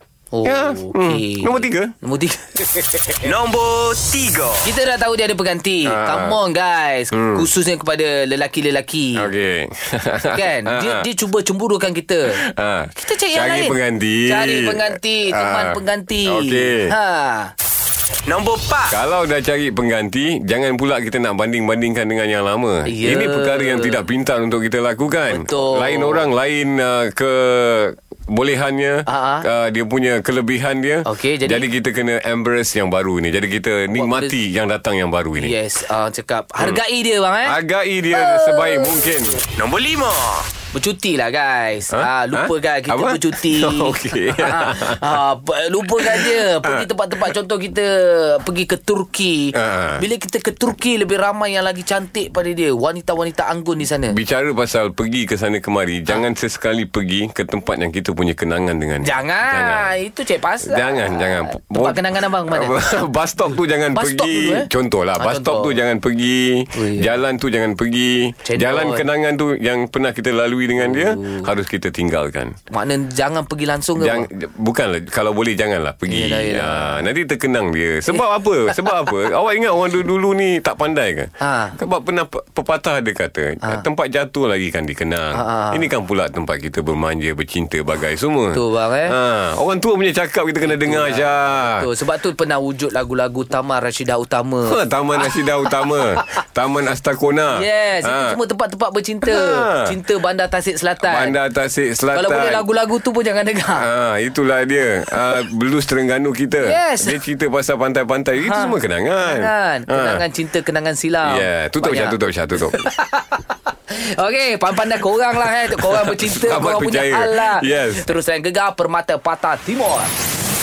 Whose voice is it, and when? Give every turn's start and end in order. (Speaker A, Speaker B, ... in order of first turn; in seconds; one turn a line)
Speaker A: 0.3-3.2
Speaker B: 0.5-1.9
Speaker C: 3.2-4.7
Speaker A: 4.6-9.3
Speaker B: 5.9-6.4
Speaker B: 7.1-7.5
Speaker B: 9.2-11.1
Speaker A: 10.3-12.4
Speaker B: 12.3-16.9
Speaker A: 13.0-17.5
Speaker C: 18.3-18.9
Speaker B: 18.9-35.6
Speaker A: 22.9-24.0
Speaker A: 25.3-26.2
Speaker A: 29.1-29.5
Speaker A: 31.1-31.6
Speaker A: 33.9-34.4
Speaker A: 35.4-37.6
Speaker B: 37.4-39.4
Speaker A: 38.1-39.0
Speaker C: 39.6-40.5
Speaker A: 40.7-54.1
Speaker B: 41.9-45.2
Speaker B: 46.0-46.9
Speaker B: 49.5-50.0
Speaker B: 54.1-59.9
Speaker A: 59.0-62.8
Speaker B: 60.6-72.6
Speaker A: 63.9-65.8
Speaker A: 66.7-67.1
Speaker A: 68.5-69.1
Speaker A: 70.8-71.5
Speaker A: 72.7-74.3
Speaker B: 74.0-91.9
Speaker A: 76.1-77.0
Speaker A: 81.4-81.8
Speaker A: 85.3-85.9
Speaker A: 88.5-89.2
Speaker A: 90.7-94.8
Speaker B: 94.7-98.4
Speaker A: 97.5-101.4
Speaker B: 99.2-100.0
Speaker B: 101.0-102.7
Speaker A: 102.1-103.9
Speaker B: 103.8-110.2
Speaker A: 106.6-107.2
Speaker A: 108.4-120.1
Speaker B: 111.2-112.8
Speaker B: 115.7-118.1